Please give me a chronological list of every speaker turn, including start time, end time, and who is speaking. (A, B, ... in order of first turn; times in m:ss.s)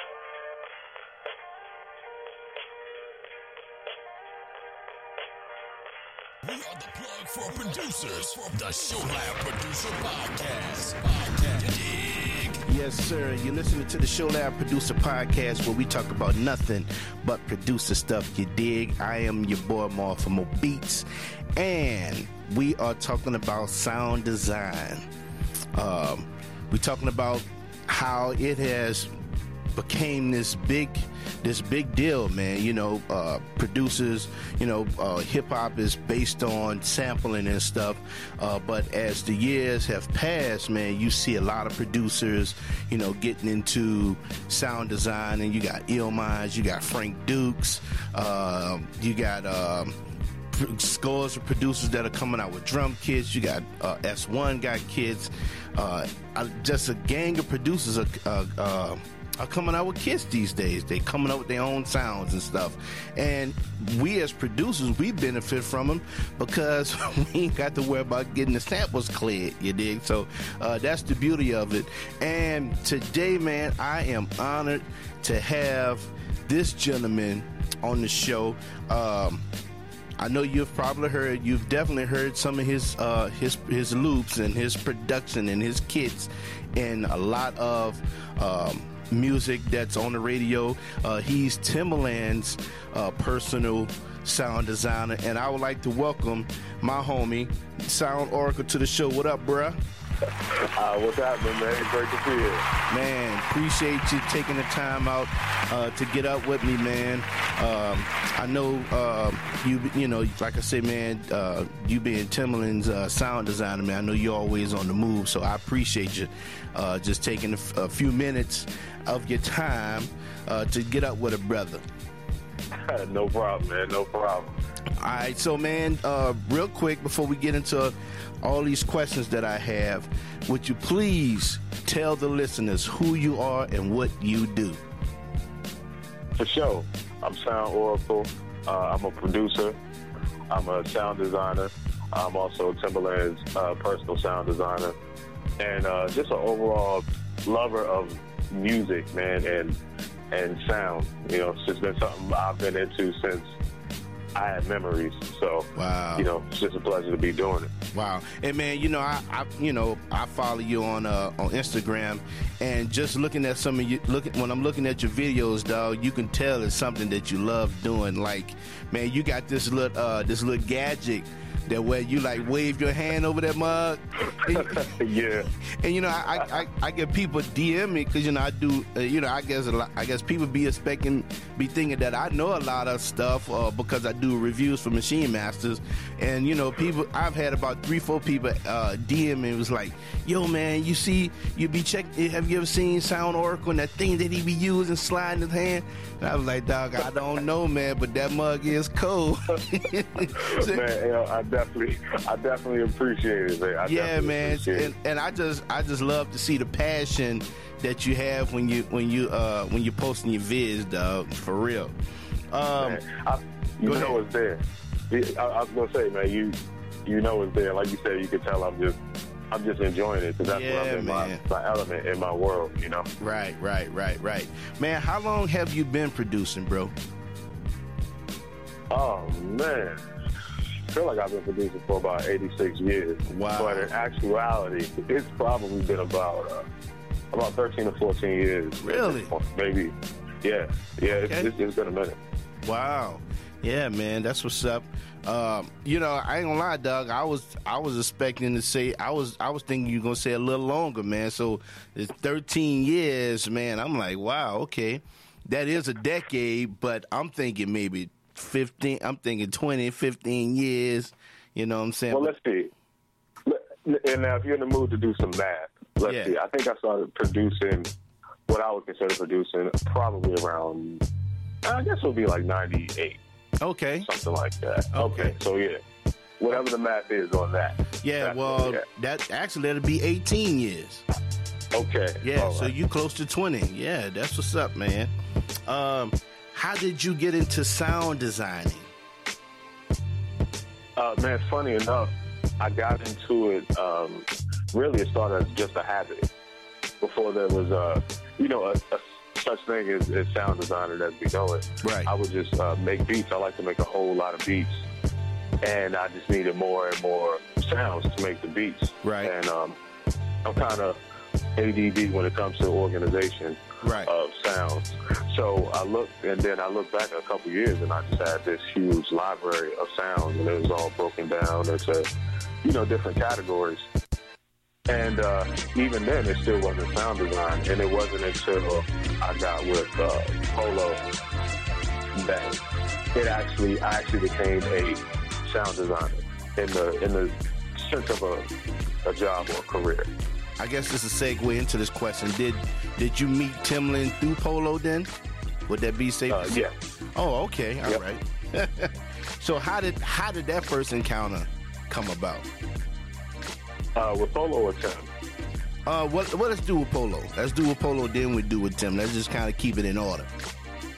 0:06.4-0:12.6 A
0:12.6-0:25.1 B
0:25.7-0:29.1 B
0:29.7-0:50.0 B
0:50.5-1:19.4 B
1:20.2-1:39.8 B
1:40.5-1:42.6 C
1:42.9-2:01.8 B
2:02.8-2:04.6 C
2:05.0-2:14.8 B
2:16.4-2:19.8 C
2:20.5-2:25.0 C
2:25.6-2:29.8 C
2:30.3-2:33.5 C
2:34.3-2:37.7 C
2:35.7-2:36.3 B
2:37.9-2:54.9 B
2:54.4-2:55.5 C
2:55.6-3:20.8 B
3:20.3-3:24.9 C
3:23.8-3:32.0 B
3:32.5-3:33.0 B
3:32.8-3:39.0 C
3:33.8-3:34.2 B
3:39.5-3:43.1 C
3:40.4-3:41.4 B
3:43.2-3:46.9 B
3:48.9-3:50.0 C
3:50.9-3:56.7 C
3:53.3-3:53.9 B
3:57.3-4:02.2 C
3:58.8-3:59.3 B
4:01.1-4:01.5 B
4:02.6-4:22.3 B
4:22.1-4:22.7 C
4:23.4-4:27.9 C
4:26.0-4:26.3 B
4:28.5-4:31.0 C
4:31.6-4:33.2 C
4:33.6-4:34.1 B
4:34.0-4:35.8 C
4:34.9-4:35.3 B
4:36.4-4:38.8 C
4:38.0-4:41.0 B
4:41.7-4:42.7 C
4:42.2-4:45.1 B
4:45.6-4:48.9 B
4:51.0-4:56.3 C
4:57.0-5:04.8 C
5:01.8-5:02.1 B
5:05.6-5:09.8 C
5:09.0-5:09.3 B
5:10.4-5:11.0 C
5:11.6-5:22.1 C
5:13.8-5:14.1 B
5:22.6-5:23.8 C
5:24.9-5:31.1 C
5:32.1-5:32.6 C
5:33.1-5:38.5 C
5:39.0-5:40.1 C
5:40.6-5:45.1 B
5:45.7-5:46.6 B
5:46.3-5:46.8 C
5:47.1-5:52.5 B
5:54.0-5:55.1 C
5:55.8-6:00.3 B